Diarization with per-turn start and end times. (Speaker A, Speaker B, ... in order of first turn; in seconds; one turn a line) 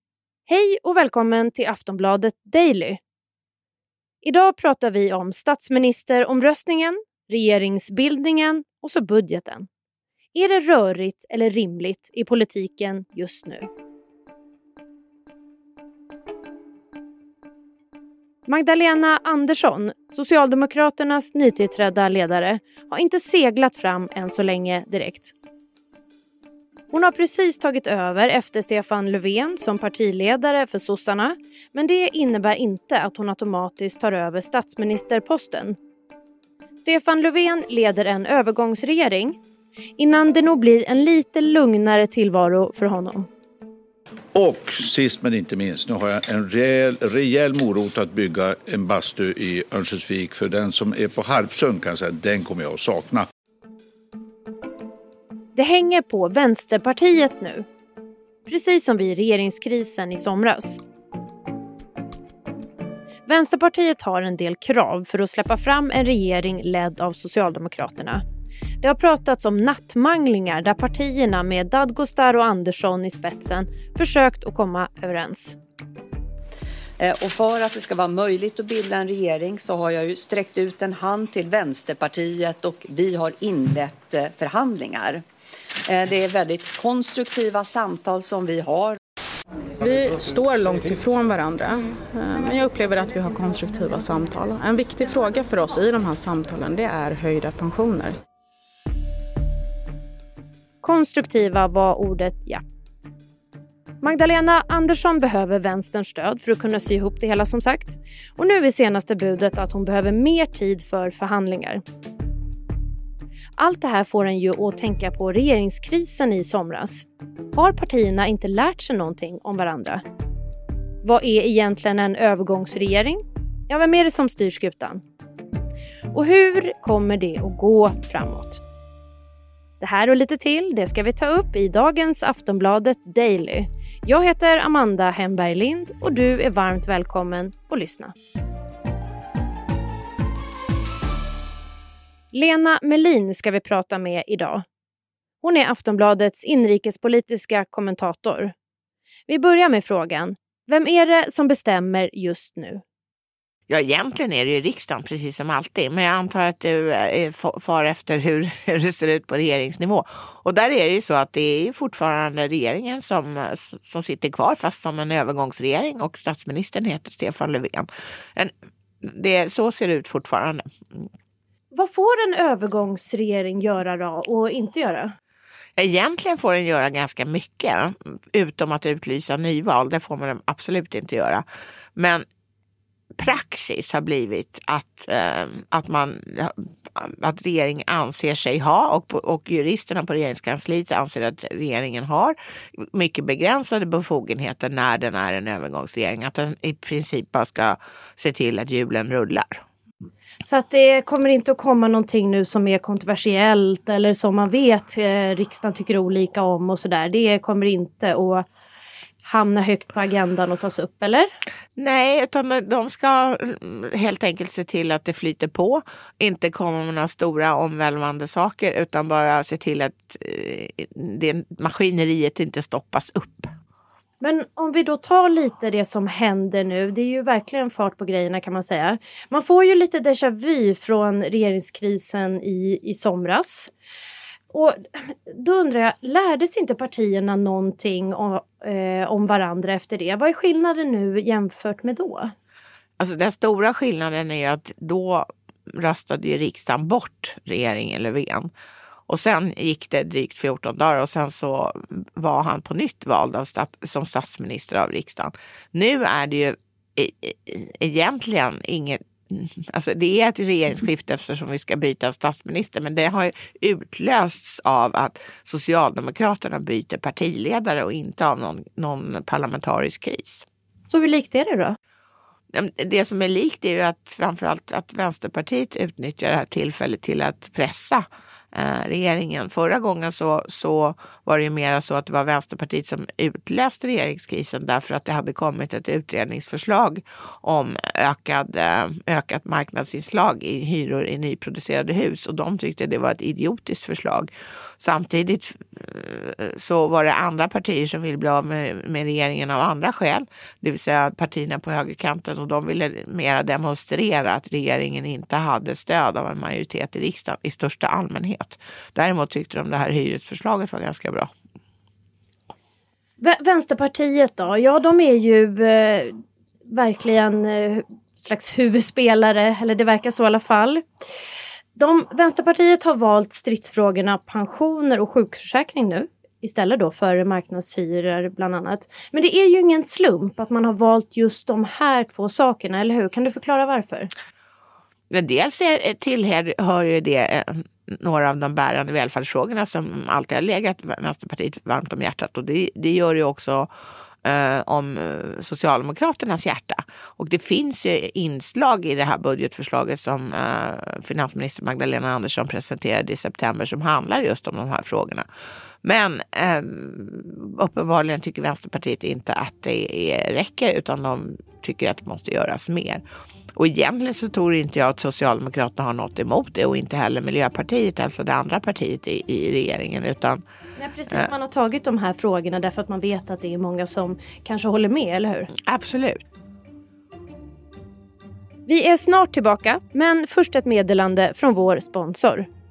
Speaker A: 0.5-3.0
Speaker A: 4.2-9.7
Speaker A: 10.3-13.7
Speaker A: 18.5-25.3
Speaker A: 26.9-35.8
Speaker A: 36.8-39.4
Speaker A: 40.0-43.3
Speaker B: 44.3-53.3
Speaker A: 55.5-57.6
Speaker A: 58.5-60.8
Speaker A: 63.3-68.2
Speaker A: 68.8-75.6
Speaker C: 77.0-85.2
Speaker C: 85.9-89.0
Speaker D: 89.8-98.2
Speaker A: 100.8-102.6
Speaker A: 104.0-111.8
Speaker A: 113.6-120.0
Speaker A: 121.0-125.0
Speaker A: 126.1-128.6
Speaker A: 129.8-138.1
Speaker A: 142.3-144.6
Speaker A: 145.4-148.5
Speaker A: 149.3-152.8
Speaker E: 153.7-168.5
Speaker E: 169.0-171.1
Speaker A: 171.7-175.1
Speaker E: 175.8-181.4
Speaker E: 181.9-182.2
Speaker E: 183.2-199.6
Speaker A: 200.4-208.4
Speaker A: 209.2-211.3
Speaker E: 211.8-223.5
Speaker A: 224.2-233.7
Speaker A: 234.5-242.3
Speaker E: 243.0-248.5
Speaker E: 249.1-270.4
Speaker A: 270.9-271.8
Speaker E: 272.5-311.3
Speaker A: 313.2-316.1
Speaker A: 316.7-320.8
Speaker A: 321.8-334.1
Speaker E: 335.1-343.7
Speaker E: 344.2-355.2
Speaker E: 355.8-363.0
Speaker E: 363.5-370.4
Speaker A: 370.8-375.5
Speaker E: 375.6-376.2
Speaker A: 378.7-382.5